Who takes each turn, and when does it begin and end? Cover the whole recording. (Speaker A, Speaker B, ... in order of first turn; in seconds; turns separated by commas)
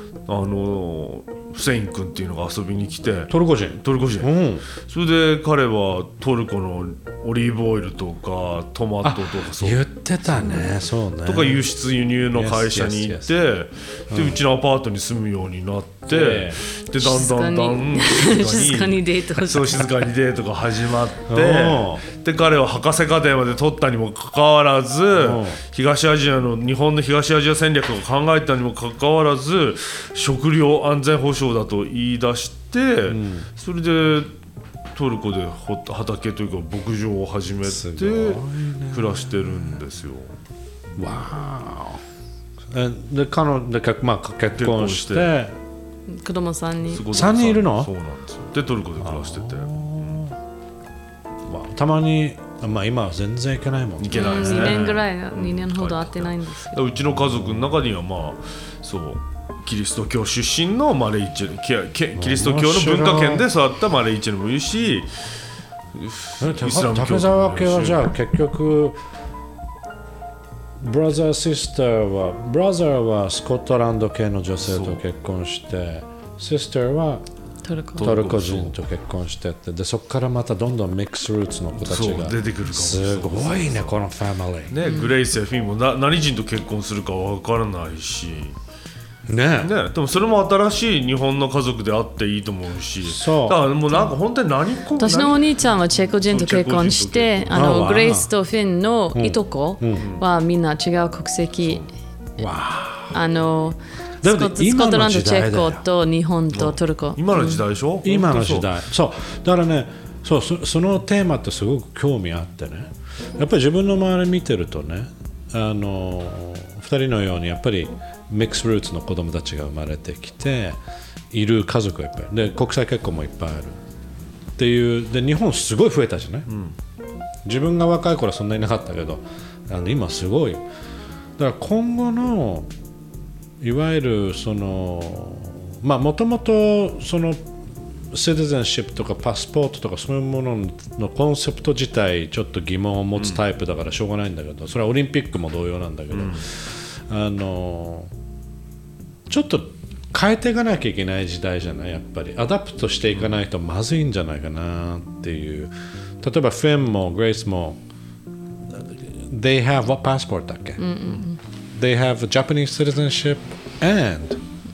Speaker A: 0.3-10.7, Speaker B: 3.3-4.7, Speaker B: 9.0-11.7, Speaker A: 11.2-34.3, Speaker B: 12.3-13.3, Speaker B: 14.1-14.4, Speaker B: 16.1-16.6, Speaker C: 16.9-20.1, Speaker B: 21.3-22.0, Speaker B: 25.1-25.6, Speaker B: 33.1-33.5, Speaker A: 34.9-40.3, Speaker B: 37.6-39.8, Speaker B: 41.0-42.0, Speaker B: 42.7-45.6, Speaker A: 44.6-45.3, Speaker C: 46.1-47.1, Speaker A: 46.9-50.2, Speaker B: 47.1-47.9, Speaker B: 49.0-50.4, Speaker B: 51.5-55.0, Speaker A: 54.0-65.1, Speaker C: 54.1-56.8, Speaker B: 57.1-57.4, Speaker B: 62.2-63.5, Speaker A: 65.9-68.0, Speaker B: 66.4-69.0, Speaker B: 70.8-77.2, Speaker A: 74.6-75.0, Speaker C: 77.6-78.1, Speaker A: 78.0-78.8, Speaker B: 78.0-84.7, Speaker A: 81.8-84.0, Speaker A: 84.7-88.5, Speaker C: 84.8-85.1, Speaker B: 89.3-89.7, Speaker A: 89.6-95.5, Speaker B: 93.0-93.6, Speaker C: 95.0-101.8, Speaker A: 96.0-97.8, Speaker B: 97.5-98.3, Speaker B: 99.2-100.1, Speaker A: 100.0-100.2, Speaker A: 101.6-101.9, Speaker B: 102.4-103.2, Speaker C: 103.1-107.6, Speaker B: 104.2-105.9, Speaker A: 106.5-108.7, Speaker B: 108.0-120.8, Speaker B: 121.3-123.8, Speaker B: 124.6-126.5, Speaker A: 126.5-126.8, Speaker B: 127.5-130.6, Speaker B: 131.4-132.7, Speaker B: 133.6-137.5, Speaker B: 138.1-148.1, Speaker A: 146.1-146.5, Speaker B: 149.3-157.8, Speaker B: 158.7-160.8, Speaker C: 160.8-161.4, Speaker B: 161.8-164.4